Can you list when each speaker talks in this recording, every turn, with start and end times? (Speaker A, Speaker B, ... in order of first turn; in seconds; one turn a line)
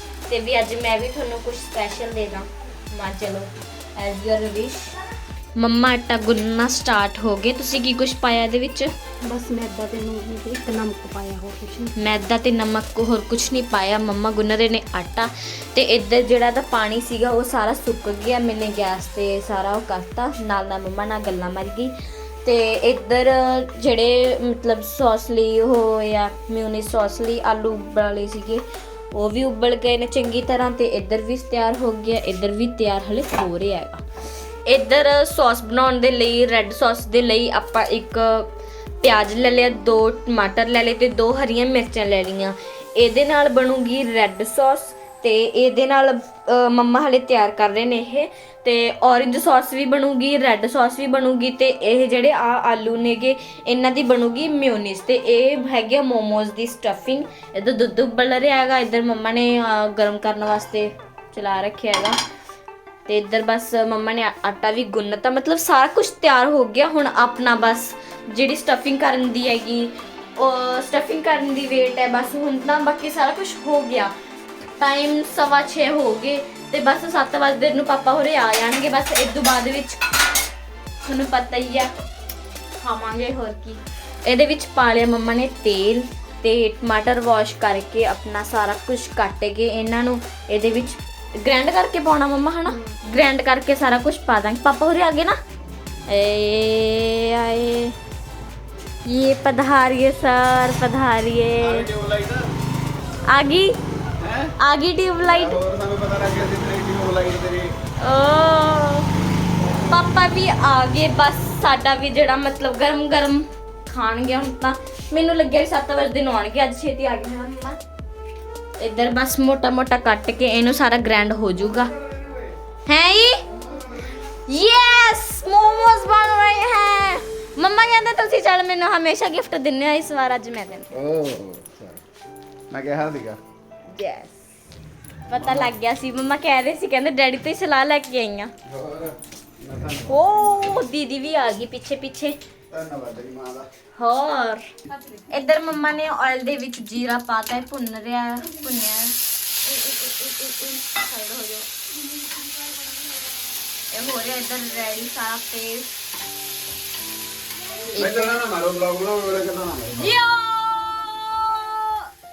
Speaker A: 0.3-4.9
Speaker A: 5.6-8.9
Speaker B: 9.2-11.9
Speaker A: 12.0-21.9
Speaker A: 22.4-34.0
Speaker A: 34.7-38.5
Speaker A: 39.0-62.2
Speaker A: 63.1-74.1
Speaker A: 74.8-80.0
Speaker A: 81.0-81.9
Speaker A: 82.8-95.4
Speaker B: 92.7-93.0
Speaker A: 96.1-98.0
Speaker A: 99.1-101.9
Speaker C: 101.6-102.5
Speaker A: 103.3-103.8
Speaker C: 104.2-104.5
Speaker A: 104.6-105.6
Speaker C: 105.2-107.7
Speaker A: 108.0-109.1
Speaker A: 109.8-117.8
Speaker A: 118.8-121.9
Speaker A: 122.9-123.4
Speaker A: 124.5-130.9
Speaker C: 130.9-132.0
Speaker C: 132.7-133.4
Speaker A: 133.9-134.3
Speaker A: 135.3-138.5
Speaker C: 138.7-140.3
Speaker A: 140.1-142.4
Speaker C: 142.7-143.7
Speaker A: 143.9-144.7
Speaker B: 144.9-145.2
Speaker A: 145.3-151.7
Speaker B: 152.3-153.1
Speaker A: 153.9-156.0
Speaker A: 157.9-158.4
Speaker C: 157.9-160.1
Speaker A: 159.9-162.1